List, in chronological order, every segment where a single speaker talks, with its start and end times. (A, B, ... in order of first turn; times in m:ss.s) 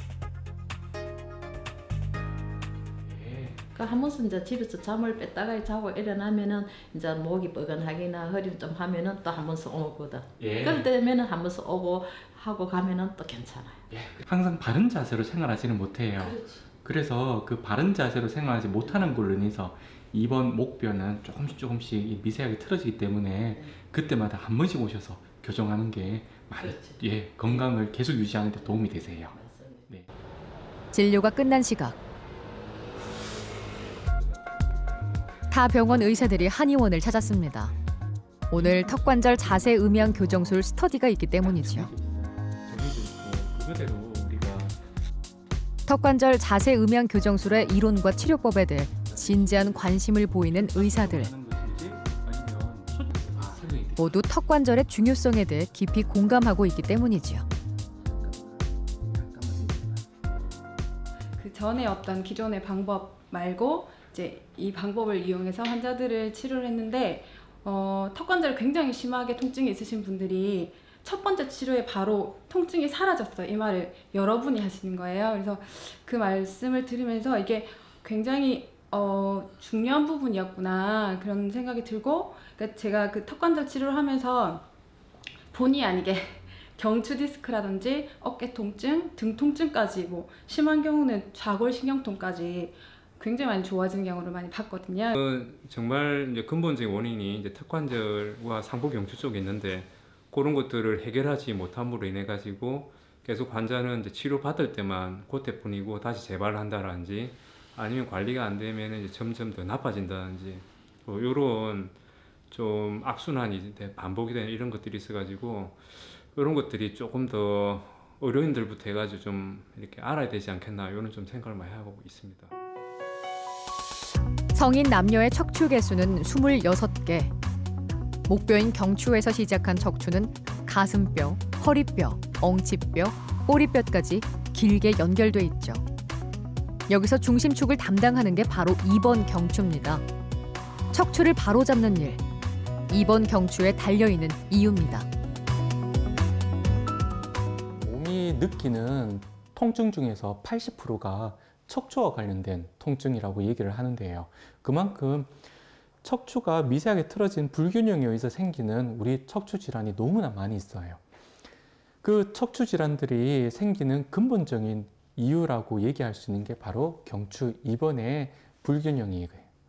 0:03.0-0:03.6 A
0:03.8-0:13.8 B
0:10.4-0:10.9 A
0:13.9-0:30.1 A
0:16.2-0:16.7 B
0:18.8-0:19.1 B
0:26.6-0:27.7 B
0:29.3-0:29.9 B
0:30.9-0:32.0 C
0:35.5-0:37.7 C
0:38.5-0:41.9 C
0:38.7-0:39.5 A
0:40.0-0:40.3 A
0:41.4-0:44.8 A
0:45.9-0:51.3 C
0:49.0-0:54.2 A
0:54.0-0:57.4 C
0:58.1-0:58.6 A
0:59.1-1:00.0 A
1:01.4-1:24.7 D
1:25.5-1:35.2 D
1:35.1-1:52.0 E
1:52.5-2:02.5 E
2:04.5-2:07.3 C
2:08.3-2:15.8 C
2:16.9-2:20.0 C
2:20.9-2:22.2 C
2:22.9-2:25.1 C
2:27.8-2:35.3 A
2:36.0-2:41.0 A
2:42.0-2:49.5 A